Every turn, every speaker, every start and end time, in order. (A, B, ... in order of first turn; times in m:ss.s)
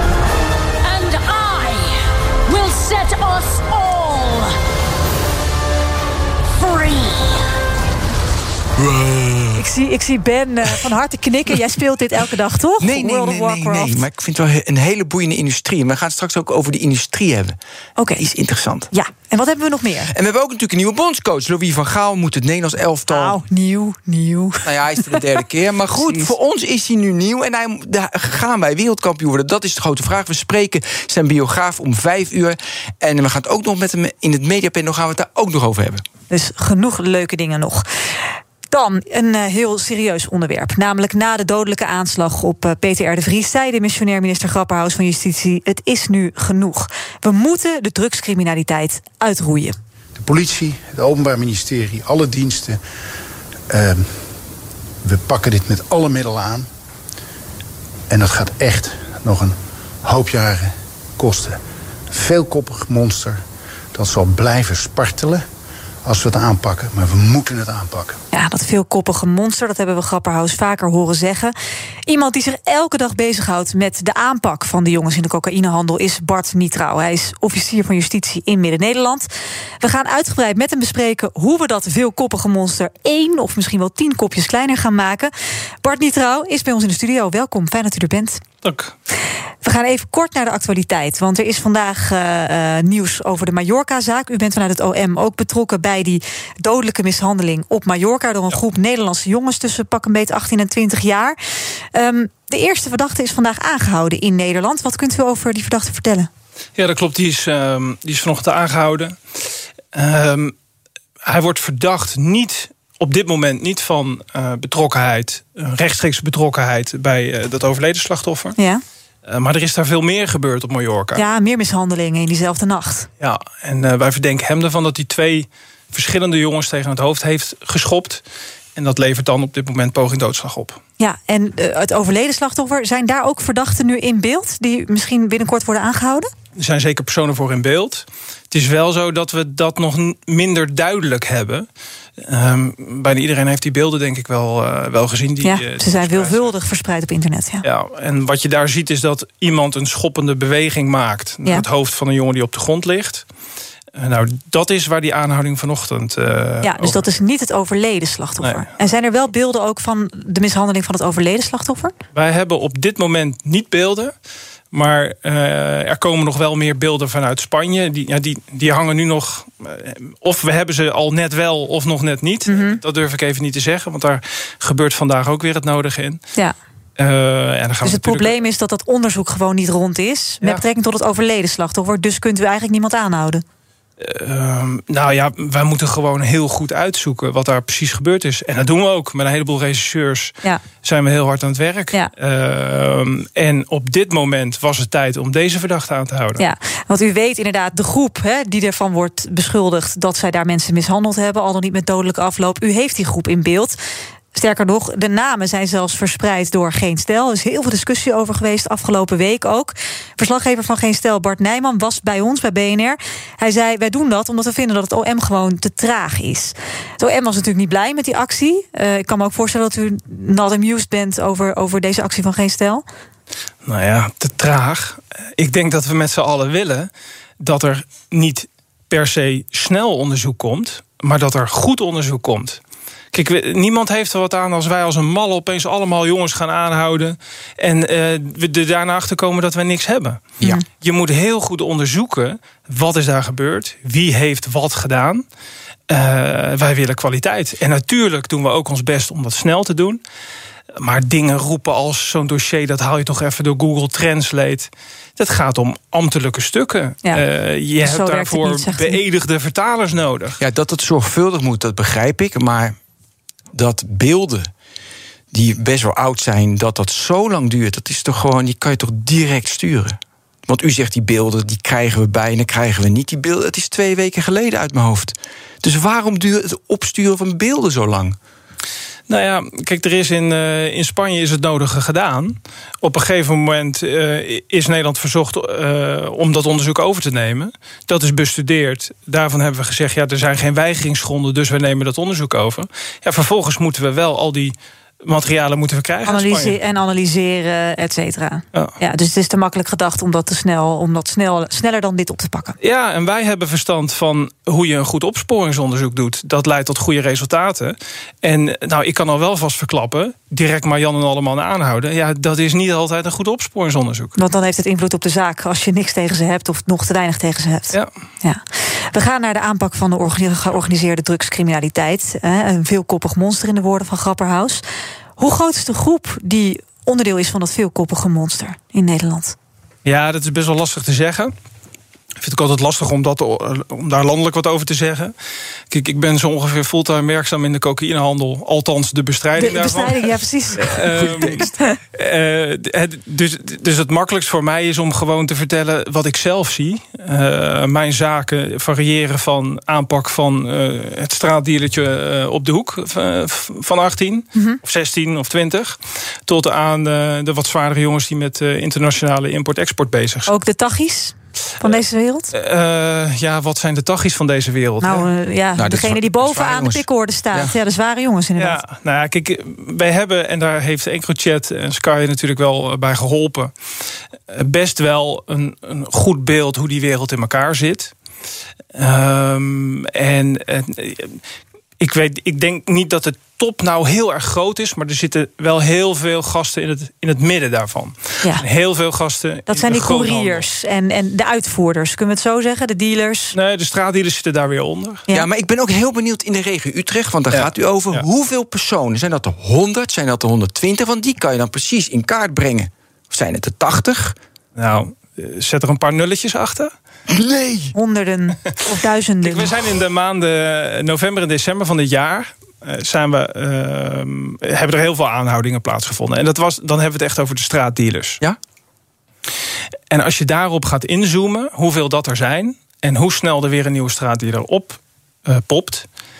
0:00.8-0:04.6 A
0:06.6-0:07.4 A
0:08.8-0:09.6 B
0:09.5-0:14.0 C
0:12.8-0:17.6 B
0:18.0-0:18.2 C
0:18.2-0:18.9 B
0:18.9-0:20.1 C
0:20.1-0:23.4 B
0:23.1-0:25.1 C
0:24.6-0:36.0 B
0:26.0-0:26.3 C
0:36.3-0:49.7 C
0:50.2-0:52.8 D
0:53.7-0:54.1 D
0:55.0-0:56.7 D
0:58.1-1:01.6 D
1:02.1-1:03.4 D
1:03.9-1:05.4 D
1:06.0-1:08.2 D
1:08.3-1:11.5 C
1:12.0-1:19.3 C
1:19.8-1:28.4 C
1:28.6-1:28.9 E
1:29.6-1:46.3 C
1:46.8-1:49.2 E
1:49.9-1:50.5 E
1:51.2-1:58.6 E
1:58.6-1:58.8 C
1:59.2-2:01.2 E
2:01.1-2:03.1 C
2:03.2-2:08.2 E
2:08.7-2:10.8 E
2:11.0-2:16.3 C
2:16.6-2:21.7 E
2:22.2-2:26.5 E
2:25.4-2:27.6 C
2:27.6-2:33.2 E
2:33.9-2:37.0 E
2:36.6-2:41.9 C
2:38.4-2:38.7 E
2:42.1-2:44.1 E
2:44.7-2:56.2 E
2:52.4-2:52.8 C
2:57.0-2:58.4 E
2:57.8-3:03.4 C
3:04.0-3:16.4 E
3:16.4-3:23.8 C
3:24.3-3:42.8 C
3:43.6-3:52.6 E
3:53.1-4:05.2 E
4:05.9-4:10.0 E
4:10.8-4:20.4 E
4:17.8-4:19.0 C
4:20.4-4:22.8 B
4:23.5-4:24.5 B
4:25.3-4:38.2 B
4:39.1-4:56.6 E
4:56.0-5:02.6 C
5:02.6-5:14.1 E
5:14.2-5:24.6 C
5:25.2-5:29.4 C
5:29.8-5:31.3 E
5:32.2-5:35.1 E
5:35.7-6:00.3 E
5:39.4-5:41.7 C
6:00.3-6:02.3 C
6:02.3-6:05.1 E
6:04.8-6:08.6 C
6:05.5-6:07.6 B
6:08.4-6:13.5 E
6:14.3-6:17.9 E
6:18.7-6:21.2 E
6:21.8-6:30.4 E
6:29.5-6:33.4 C
6:33.3-6:35.1 E
6:35.1-6:44.2 B
6:37.3-6:38.1 E
6:44.6-6:46.7 E
6:47.1-6:47.7 B
6:47.7-6:49.5 C
6:49.2-6:58.2 E
6:59.9-7:05.9 E